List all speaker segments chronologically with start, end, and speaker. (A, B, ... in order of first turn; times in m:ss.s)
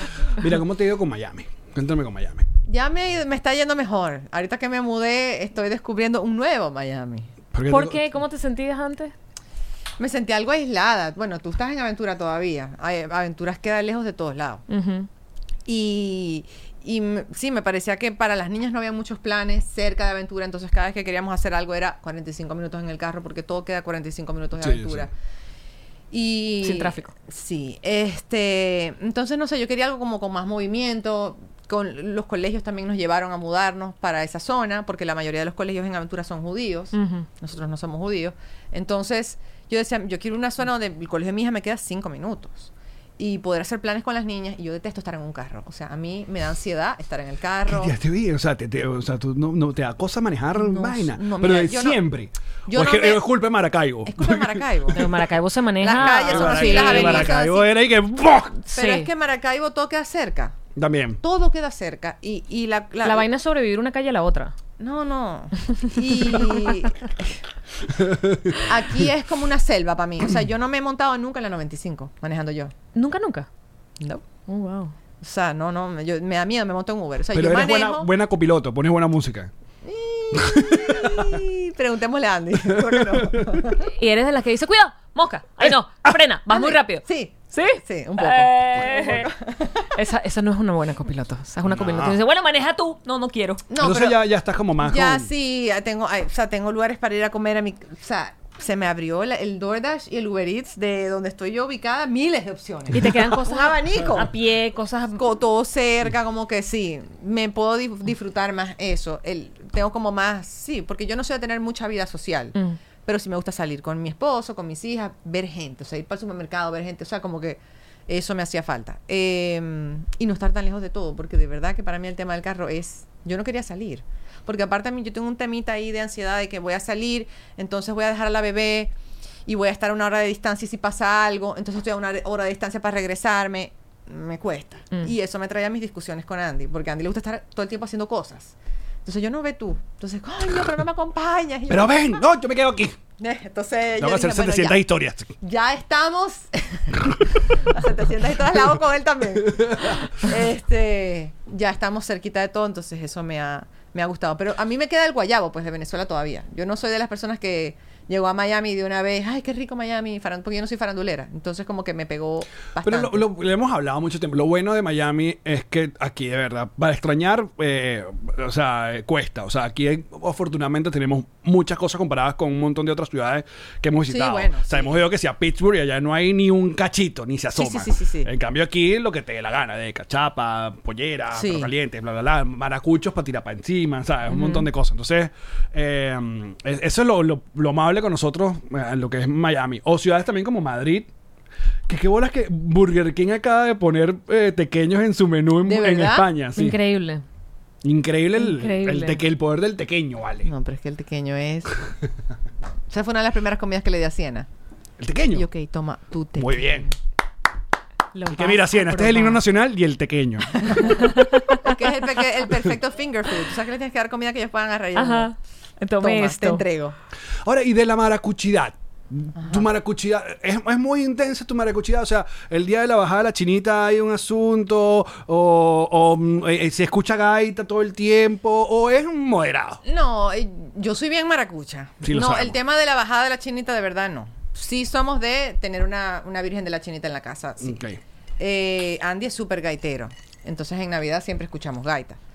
0:00.4-0:02.5 A
0:02.7-0:07.3 B
0:07.5-0:08.0 A
0:07.7-0:09.1 C
0:10.0-0:14.6 B
0:14.7-0:15.1 C
0:15.7-0:25.1 B
0:24.6-0:25.1 A
0:26.1-0:47.9 B
0:26.6-0:27.1 C
0:37.0-0:37.3 C
0:47.7-0:55.1 A
0:50.5-0:52.0 B
0:52.7-0:53.3 B
0:54.0-0:55.2 B
0:54.9-0:57.4 C
0:55.8-0:57.7 B
0:56.0-0:58.6 A
0:58.6-0:59.1 C
0:58.7-1:00.6 B
1:00.7-1:01.2 A
1:01.2-1:03.3 B
1:03.0-1:04.5 C
1:04.8-1:07.4 B
1:06.2-1:06.7 C
1:08.0-1:08.6 A
1:08.6-1:12.7 B
1:13.0-1:13.5 C
1:14.5-1:14.9 C
1:15.2-1:18.1 B
1:17.3-1:19.5 A
1:19.8-1:23.8 B
1:20.4-1:21.4 A
1:22.8-1:23.6 A
1:23.8-1:29.3 C
1:26.5-1:29.9 B
1:29.9-1:33.6 C
1:31.7-1:32.2 A
1:33.7-1:34.2 B
1:33.8-1:35.3 A
1:34.8-1:44.3 B
1:42.9-1:45.2 C
1:45.2-1:52.6 B
1:53.0-2:08.9 B
2:09.4-2:22.1 B
2:21.7-2:23.0 A
2:23.2-2:24.8 B
2:24.0-2:25.3 A
2:25.4-2:43.2 B
2:29.5-2:30.1 A
2:42.8-3:11.1 A
2:54.1-2:55.0 B
2:57.6-2:58.3 B
3:01.3-3:01.7 B
3:04.3-3:04.7 C
3:11.9-3:16.8 A
3:15.7-3:16.3 B
3:16.6-3:17.2 C
3:17.8-3:20.5 A
3:18.4-3:19.2 C
3:20.4-3:21.9 B
3:22.9-3:24.5 B
3:25.0-3:25.5 A
3:25.3-3:27.0 B
3:26.4-3:26.9 A
3:28.1-3:29.4 C
3:28.3-3:30.5 A
3:30.6-3:35.3 B
3:31.0-3:31.8 C
3:35.0-3:36.6 C
3:36.0-3:37.0 B
3:37.4-3:49.8 A
3:39.4-3:39.7 B
3:49.8-3:57.8 B
3:52.0-3:52.6 A
3:57.6-3:58.0 A
3:58.4-4:02.2 B